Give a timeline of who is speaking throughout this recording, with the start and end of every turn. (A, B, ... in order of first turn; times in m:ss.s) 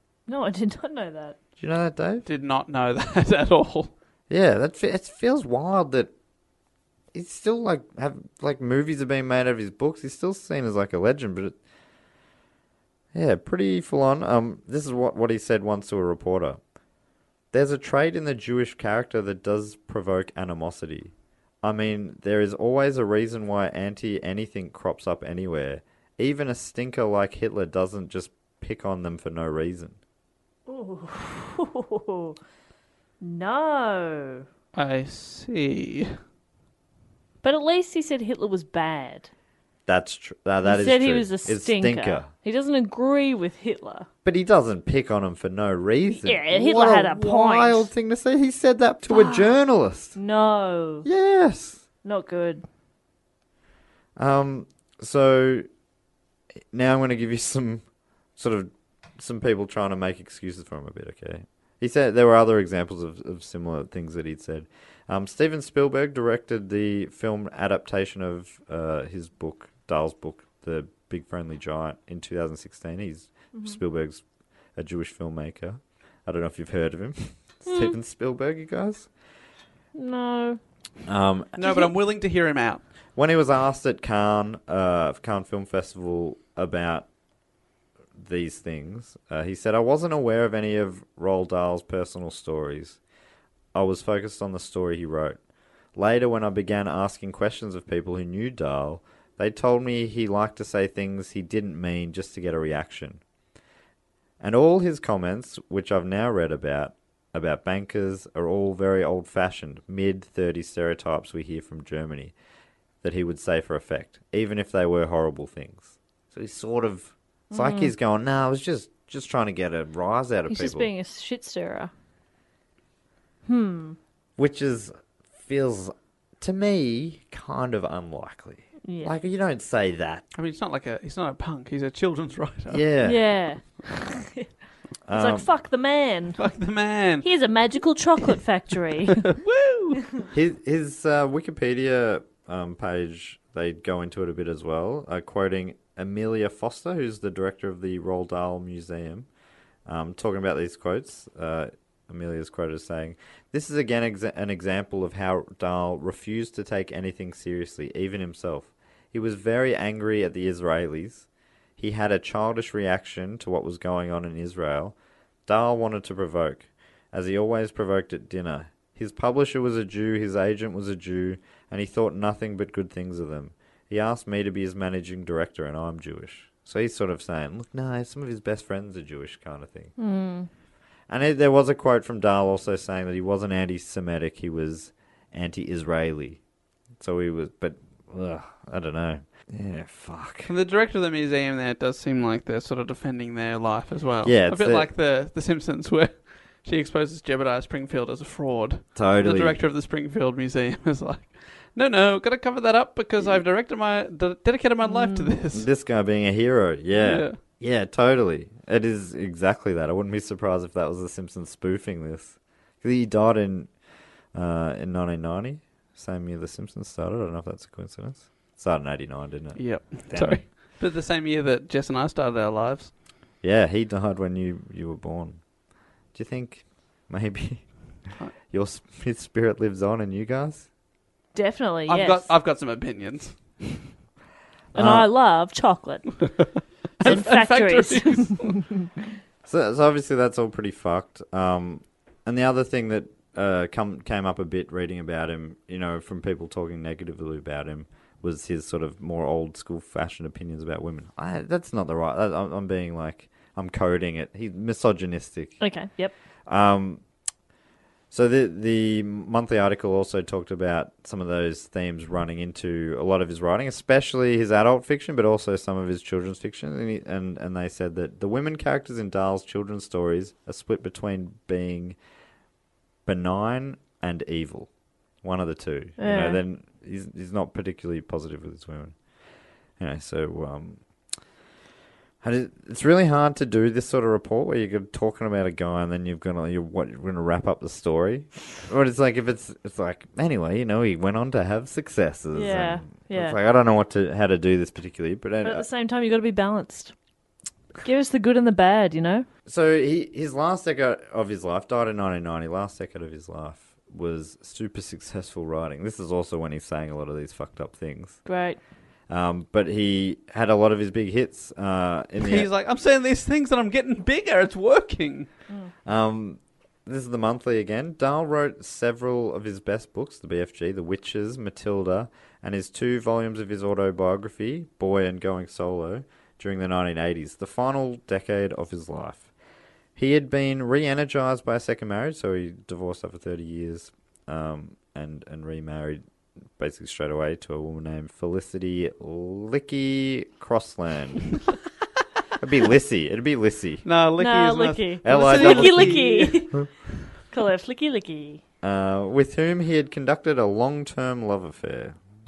0:00.3-0:01.4 A
0:01.6-0:02.2 B
0:02.2-0:03.9 C
0:04.3-0:06.1 B
0:07.1-0:11.6 B
0:13.1-0:16.6 B
0:17.5-0:30.0 B
0:30.7-0:32.4 A
0:33.2-0:34.4 A
0:34.7-0:36.1 C
0:37.4-0:39.3 A
0:39.9-0:42.3 B
0:40.6-0:44.1 A
0:44.2-0:50.2 B
0:46.1-0:47.9 A
0:49.1-0:49.6 A
0:50.1-0:51.0 A
0:51.0-0:51.8 B
0:52.0-0:52.6 A
0:54.2-0:55.6 B
0:56.7-0:57.8 B
0:58.4-1:14.2 B
1:14.8-1:19.1 B
1:17.7-1:17.9 A
1:19.9-1:20.6 A
1:21.0-1:21.5 B
1:21.6-1:22.8 C
1:21.6-1:21.9 A
1:23.2-1:27.0 B
1:28.2-1:33.0 B
1:33.7-1:35.4 B
1:36.0-1:43.2 B
1:44.4-1:52.3 B
1:53.0-2:00.9 B
1:57.5-1:57.9 A
2:00.5-2:01.9 A
2:03.4-2:04.0 A
2:04.4-2:10.2 B
2:08.9-2:09.1 A
2:10.3-2:12.8 C
2:12.7-2:13.2 B
2:13.0-2:14.5 A
2:15.0-2:15.5 B
2:15.1-2:16.4 A
2:16.4-2:17.3 C
2:17.2-2:19.3 A
2:19.3-2:20.0 C
2:20.3-2:29.3 B
2:29.8-2:41.3 B
2:41.8-2:59.9 B
3:00.0-3:00.5 A
3:01.1-3:06.4 B
3:07.0-3:10.5 B
3:10.5-3:25.7 C
3:14.2-3:14.9 B
3:18.9-3:19.6 B
3:24.8-3:25.3 A
3:25.5-3:33.7 B
3:27.0-3:27.4 C
3:34.3-3:40.4 B
3:39.6-3:42.9 C
3:43.4-3:45.4 B
3:46.1-3:47.7 B
3:48.4-3:50.7 B
3:51.3-3:52.3 A
3:51.9-3:53.8 C
3:54.7-3:56.2 A
3:54.7-3:55.1 B
3:57.0-3:58.6 C
3:57.0-3:58.6 A
3:59.4-4:15.6 B
4:15.6-4:16.1 A
4:16.5-4:17.0 B
4:18.1-4:32.0 B
4:33.0-4:34.7 B
4:35.2-4:39.0 B
4:36.0-4:36.4 A
4:39.8-4:40.8 B
4:42.2-4:55.6 B
4:52.3-4:53.4 A
4:55.4-4:56.9 A
4:57.8-4:59.3 A
4:59.4-5:08.2 B
5:08.2-5:08.6 A
5:09.1-5:12.5 B
5:12.2-5:15.3 C
5:15.8-5:29.3 B
5:30.0-5:36.0 B
5:36.6-5:41.3 B
5:42.4-5:43.8 B
5:43.8-5:46.7 C
5:44.2-5:46.7 A
5:45.0-5:46.0 B
5:47.3-5:48.4 A
5:48.6-5:52.0 B